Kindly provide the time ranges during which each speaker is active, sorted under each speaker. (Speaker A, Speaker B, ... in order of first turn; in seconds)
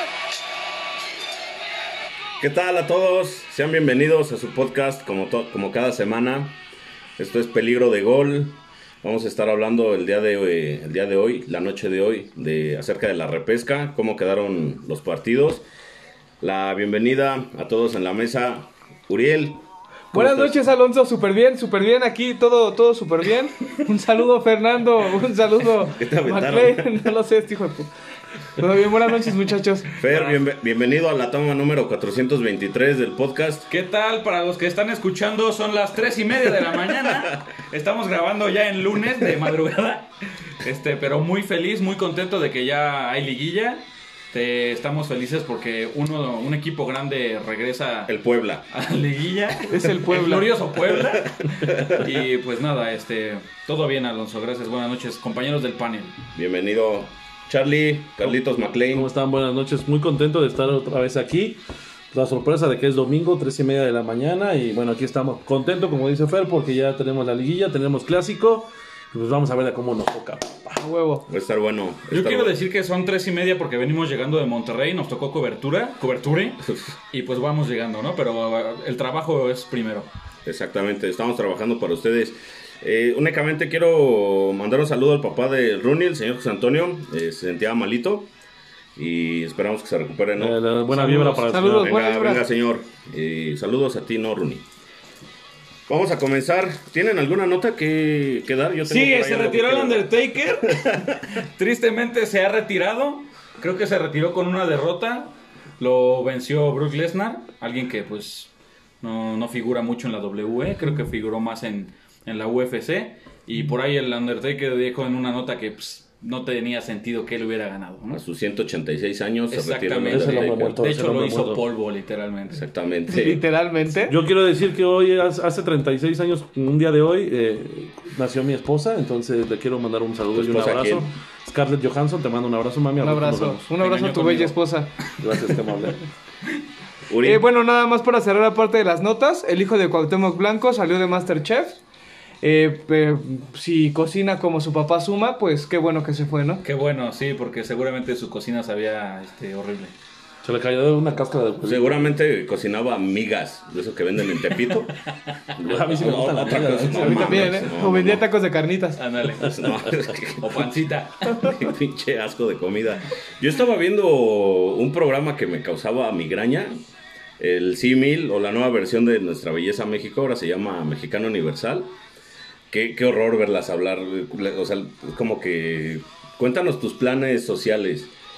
Speaker A: 2.4-6.6, 7.2-15.6, 16.4-19.6, 20.1-20.6, 25.9-26.9, 30.0-33.7, 48.1-48.7, 50.9-52.1, 56.3-59.1, 71.3-72.5, 80.4-88.3, 89.0-90.6, 91.7-94.7, 95.9-100.1, 100.7-101.2, 118.1-120.8, 122.5-123.4, 130.3-131.1, 137.1-137.4, 151.6-155.0, 155.5-158.2, 159.3-160.7, 161.3-166.8, 167.4-171.9, 172.7-178.1
Speaker B: 20.1-27.9, 28.6-29.9, 49.7-50.5, 70.8-71.2, 91.5-92.4, 123.1-124.2, 133.0-134.9, 137.2-141.8, 142.4-146.6, 156.9-159.0
Speaker C: 30.0-30.4, 33.7-40.1, 40.6-48.1, 48.7-56.2, 72.1-80.1, 90.9-91.6, 98.8-118.2, 119.5-122.6, 133.8-134.6, 146.6-149.9, 159.0-159.8, 160.4-161.5
Speaker D: 58.9-70.8, 90.4-92.0, 120.1-121.6, 124.0-133.7, 135.2-136.0, 150.4-152.2, 155.6-157.7